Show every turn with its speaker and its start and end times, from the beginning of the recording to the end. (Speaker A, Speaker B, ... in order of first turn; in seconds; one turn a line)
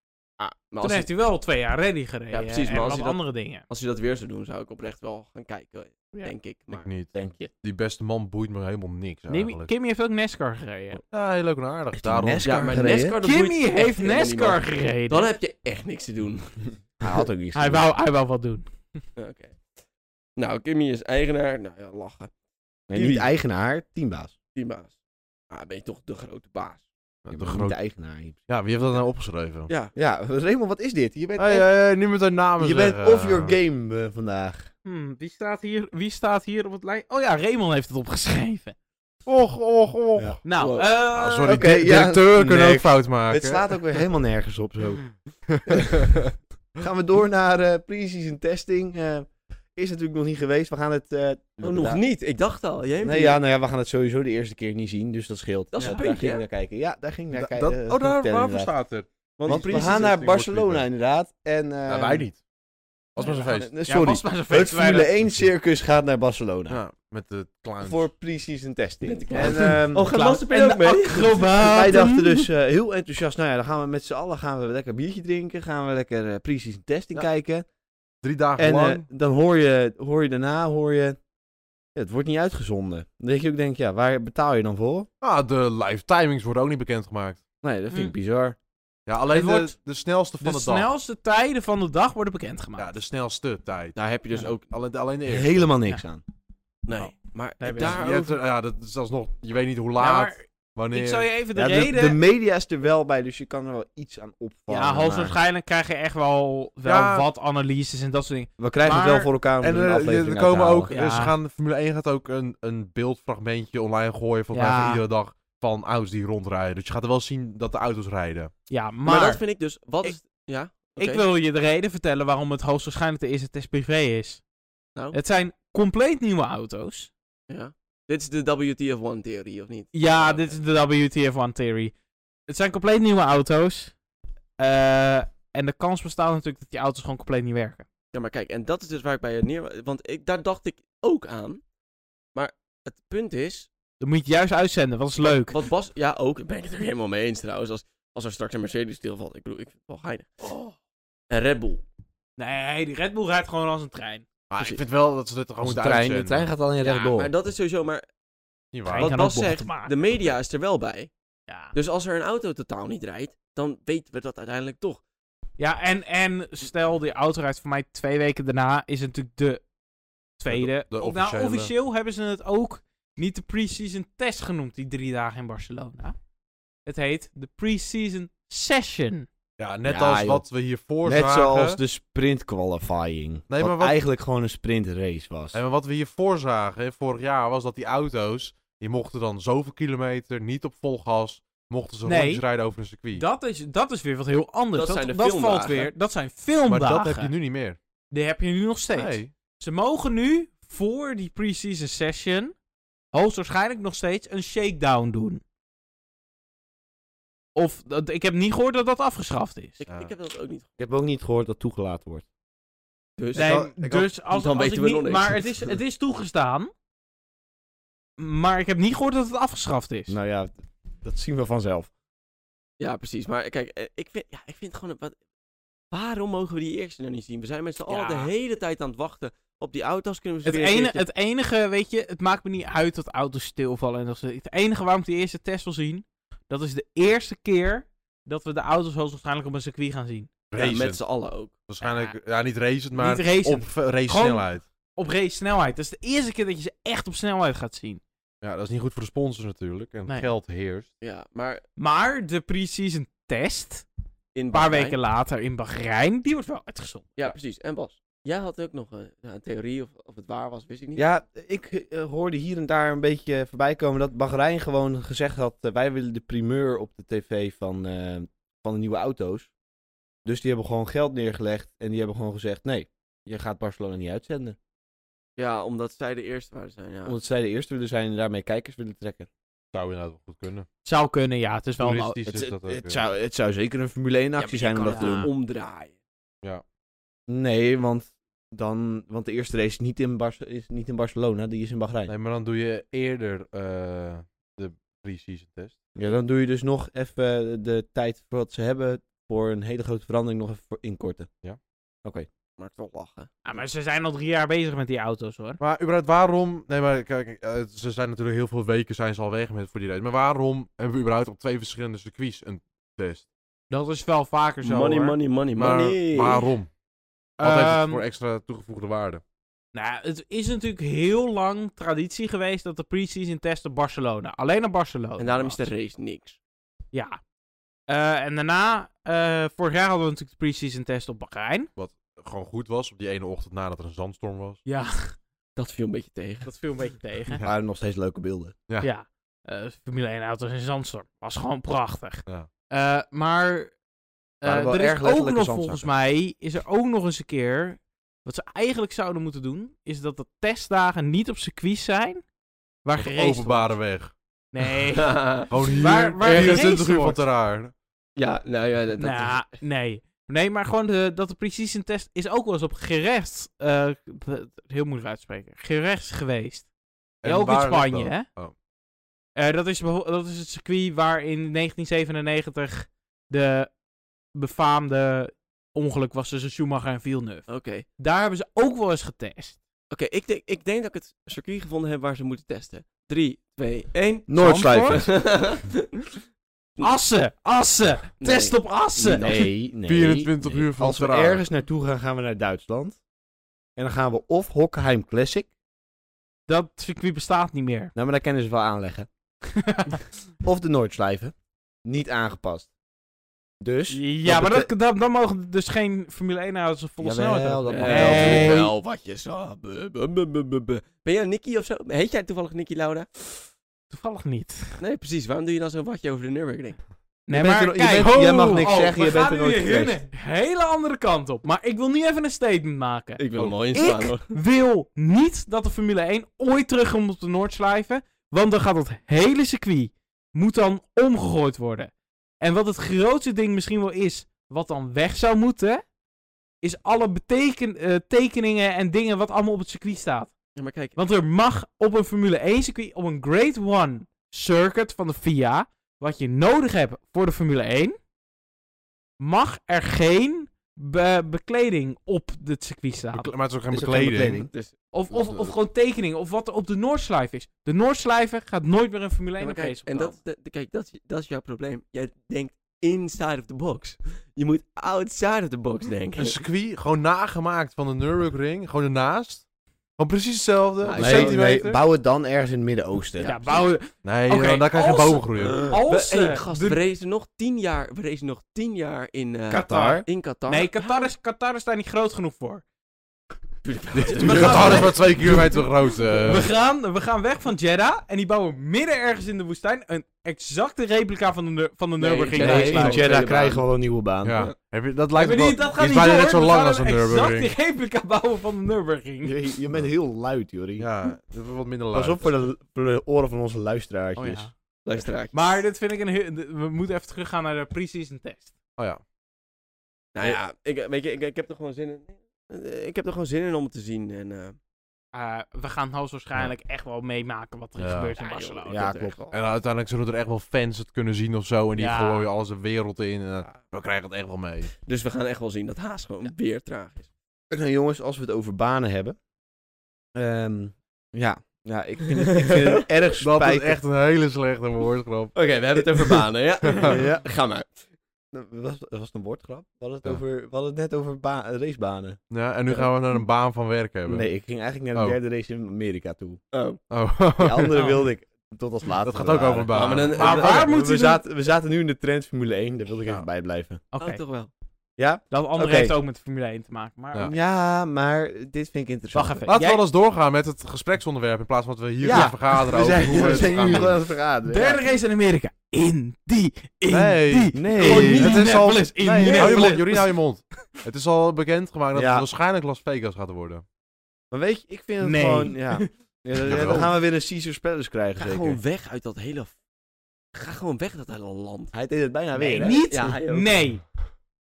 Speaker A: 0.4-1.1
Speaker B: 0.8-3.7
Speaker A: 2.3-6.9
Speaker C: 6.7-9.7
Speaker D: 7.1-7.5
Speaker B: 9.3-11.0
Speaker C: 11.1-12.9
Speaker D: 11.9-13.2
Speaker A: 12.4-16.6
Speaker B: 13.2-15.3
Speaker D: 17.0-17.9
Speaker B: 17.5-18.6
Speaker A: 19.2-19.6
Speaker A: 20.4-22.3
Speaker D: 22.9-24.3
Speaker A: 22.9-23.3
Speaker A: 24.6-24.9
Speaker A: 25.5-26.9
Speaker C: 27.2-27.8
Speaker D: 27.3-28.4
Speaker C: 28.5-29.7
Speaker D: 29.9-31.7
Speaker C: 31.4-33.6
Speaker D: 32.6-34.7
Speaker B: 34.9-38.8
Speaker C: 39.3-40.4
Speaker B: 40.5-41.5
Speaker A: 40.5-40.9
Speaker C: 41.1-43.6
Speaker D: 41.4-45.1
Speaker C: 45.6-46.2
Speaker D: 45.7-46.1
Speaker D: 46.8-52.0
Speaker A: 51.6-53.4
Speaker D: 53.0-58.7
Speaker A: 55.7-56.4
Speaker C: 57.3-60.9
Speaker A: 59.4-60.1
Speaker D: 59.5-62.3
Speaker C: 61.9-62.4
Speaker C: 63.1-63.7
Speaker D: 63.2-66.8
Speaker B: 63.9-65.1
Speaker C: 66.7-68.0
Speaker D: 67.8-70.1
Speaker A: 69.0-71.5
Speaker B: 69.3-72.5
Speaker D: 71.6-77.7
Speaker C: 78.2-79.0
Speaker D: 78.6-81.2
Speaker D: 82.0-85.1
Speaker C: 85.2-87.4
Speaker D: 87.6-88.6
Speaker C: 89.1-90.9
Speaker B: 89.3-89.7
Speaker B: 90.4-93.0
Speaker C: 92.8-95.7
Speaker A: 94.0-94.6
Speaker D: 95.3-96.2
Speaker A: 96.9-98.4
Speaker B: 97.0-98.0
Speaker C: 97.8-101.3
Speaker B: 100.0-102.2
Speaker D: 101.5-105.4
Speaker B: 104.7-109.3
Speaker C: 106.8-107.3
Speaker D: 108.6-111.0
Speaker C: 109.6-118.5
Speaker B: 110.9-111.3
Speaker B: 114.5-115.0
Speaker B: 118.7-119.4
Speaker A: 119.1-121.2
Speaker B: 121.0-124.4
Speaker B: 125.1-127.1
Speaker A: 127.5-130.6
Speaker B: 129.9-131.9
Speaker B: 132.5-133.9
Speaker B: 134.6-137.9
Speaker A: 138.1-141.6
Speaker A: 142.3-143.7
Speaker B: 144.0-145.6
Speaker A: 145.2-150.7
Speaker A: 151.3-151.8
Speaker B: 152.4-154.3
Speaker C: 154.5-156.5
Speaker D: 155.6-157.3
Speaker A: 157.1-158.1
Speaker C: 158.7-159.1
Speaker B: 158.9-159.9
Speaker A: 158.9-161.1
Speaker B: 161.5-161.7
Speaker A: 161.7-165.0
Speaker B: 165.6-169.6
Speaker B: 170.4-176.2
Speaker C: 170.5-171.7
Speaker B: 176.8-179.3
Speaker C: 179.6-181.8
Speaker D: 179.8-180.5
Speaker D: 181.0-185.6
Speaker C: 183.5-184.0
Speaker C: 185.5-193.2
Speaker B: 192.1-192.4
Speaker B: 193.1-197.3
Speaker A: 194.7-195.9
Speaker C: 196.7-197.8
Speaker B: 198.1-202.6
Speaker C: 198.9-199.3
Speaker B: 203.1-205.4
Speaker B: 207.6-209.8
Speaker A: 209.8-210.7
Speaker D: 210.8-212.2
Speaker A: 213.2-213.7
Speaker C: 213.3-214.1
Speaker B: 213.3-216.7
Speaker A: 214.3-215.4
Speaker B: 218.2-220.2
Speaker D: 220.1-221.9
Speaker A: 222.8-225.2
Speaker A: 225.9-231.1
Speaker B: 227.9-228.3
Speaker B: 230.4-240.3
Speaker C: 240.5-241.0
Speaker A: 240.6-241.5
Speaker C: 241.7-244.7
Speaker B: 241.8-242.1
Speaker B: 243.0-248.0
Speaker C: 248.4-250.9
Speaker A: 251.0-251.6
Speaker B: 251.8-253.9
Speaker A: 254.3-255.0
Speaker B: 254.5-257.1
Speaker A: 257.2-261.0
Speaker D: 261.0-269.5
Speaker D: 270.2-274.6
Speaker A: 275.4-277.2
Speaker D: 277.1-279.3
Speaker C: 279.7-280.7
Speaker B: 280.8-282.2
Speaker C: 281.8-283.0
Speaker D: 282.2-285.3
Speaker A: 284.4-285.9
Speaker B: 284.9-285.3
Speaker D: 287.3-292.1
Speaker C: 292.1-295.8
Speaker D: 295.9-301.3
Speaker A: 302.6-303.3
Speaker B: 303.4-305.6
Speaker C: 305.6-313.3
Speaker B: 313.7-315.2
Speaker A: 314.6-316.5
Speaker C: 315.6-316.7
Speaker B: 317.4-318.0
Speaker C: 317.4-319.2
Speaker B: 319.7-325.7
Speaker A: 325.2-326.4
Speaker B: 326.9-327.2
Speaker B: 327.9-331.7
Speaker C: 331.8-334.6
Speaker B: 334.7-335.2
Speaker A: 335.6-336.5
Speaker B: 336.4-337.4
Speaker D: 337.4-338.6
Speaker B: 338.8-343.7
Speaker B: 344.4-352.2
Speaker D: 344.4-345.9
Speaker B: 352.8-353.8
Speaker C: 353.0-354.1
Speaker B: 354.5-357.2
Speaker A: 354.9-356.7
Speaker C: 355.5-357.7
Speaker A: 358.2-359.4
Speaker B: 359.0-366.7
Speaker C: 367.2-368.5
Speaker B: 367.2-368.3
Speaker B: 369.4-373.7
Speaker B: 374.4-377.5
Speaker A: 377.5-377.9
Speaker B: 378.0-379.6
Speaker A: 379.9-384.3
Speaker D: 384.3-385.2
Speaker B: 384.4-385.2
Speaker A: 384.8-386.1
Speaker B: 386.8-389.4
Speaker A: 388.2-389.5
Speaker D: 389.1-393.0
Speaker C: 389.9-391.4
Speaker D: 393.8-395.5
Speaker B: 396.5-397.9
Speaker D: 397.9-399.1
Speaker B: 399.6-400.0
Speaker D: 400.4-401.3
Speaker D: 401.9-402.7
Speaker D: 403.6-404.7
Speaker B: 403.9-408.7
Speaker D: 407.0-408.7
Speaker A: 407.7-413.5
Speaker B: 413.9-414.8
Speaker A: 414.8-416.8
Speaker B: 417.3-423.2
Speaker D: 417.3-420.0
Speaker C: 417.9-418.7
Speaker A: 423.2-424.3
Speaker B: 423.7-435.8
Speaker B: 436.6-440.3
Speaker A: 440.6-441.0
Speaker B: 441.0-448.0
Speaker B: 449.2-453.3
Speaker C: 453.1-454.4
Speaker D: 453.7-454.5
Speaker A: 454.5-455.5
Speaker B: 454.9-460.2
Speaker A: 459.4-466.4
Speaker C: 466.2-469.4
Speaker C: 470.0-471.8
Speaker A: 470.8-471.4
Speaker D: 470.9-473.3
Speaker A: 473.2-473.6
Speaker B: 473.2-476.8
Speaker C: 474.0-475.6
Speaker A: 475.4-481.1
Speaker B: 479.5-482.6
Speaker D: 479.5-480.1
Speaker A: 483.6-485.1
Speaker C: 483.9-486.5
Speaker B: 484.2-485.6
Speaker B: 486.2-493.3
Speaker A: 492.0-493.6
Speaker D: 492.3-494.5
Speaker C: 494.2-497.5
Speaker B: 495.2-499.4
Speaker D: 499.2-500.9
Speaker C: 500.8-502.3
Speaker D: 501.9-504.5
Speaker B: 504.2-504.5
Speaker A: 504.9-505.6
Speaker B: 505.3-508.5
Speaker C: 508.8-509.0
Speaker A: 510.1-514.6
Speaker B: 515.1-519.0
Speaker C: 517.8-518.2
Speaker A: 518.2-519.4
Speaker D: 518.7-519.2
Speaker C: 519.3-524.7
Speaker B: 521.8-522.3
Speaker A: 524.9-527.1
Speaker D: 527.5-529.2
Speaker D: 530.1-533.8
Speaker A: 532.1-532.9
Speaker C: 533.2-535.4
Speaker A: 535.3-537.8
Speaker C: 536.7-537.0
Speaker D: 536.8-537.2
Speaker D: 538.3-542.9
Speaker C: 542.3-544.3
Speaker D: 544.1-546.4
Speaker A: 546.5-546.8
Speaker C: 546.9-548.0
Speaker D: 547.4-553.8
Speaker B: 547.8-548.0
Speaker C: 549.0-550.4
Speaker A: 549.7-550.7
Speaker B: 550.2-551.2
Speaker B: 553.9-554.2
Speaker A: 554.0-554.5
Speaker D: 555.0-556.0
Speaker B: 555.3-557.3
Speaker D: 557.2-559.5
Speaker B: 559.1-559.8
Speaker C: 559.5-563.9
Speaker D: 562.0-564.8
Speaker B: 564.5-570.1
Speaker C: 566.9-573.6
Speaker D: 567.5-568.3
Speaker A: 567.8-569.8
Speaker D: 571.9-572.3
Speaker D: 574.3-578.6
Speaker B: 575.0-575.9
Speaker C: 576.4-576.9
Speaker A: 578.2-579.5
Speaker A: 580.3-581.7
Speaker D: 581.7-582.8
Speaker B: 582.4-583.8
Speaker A: 582.6-583.7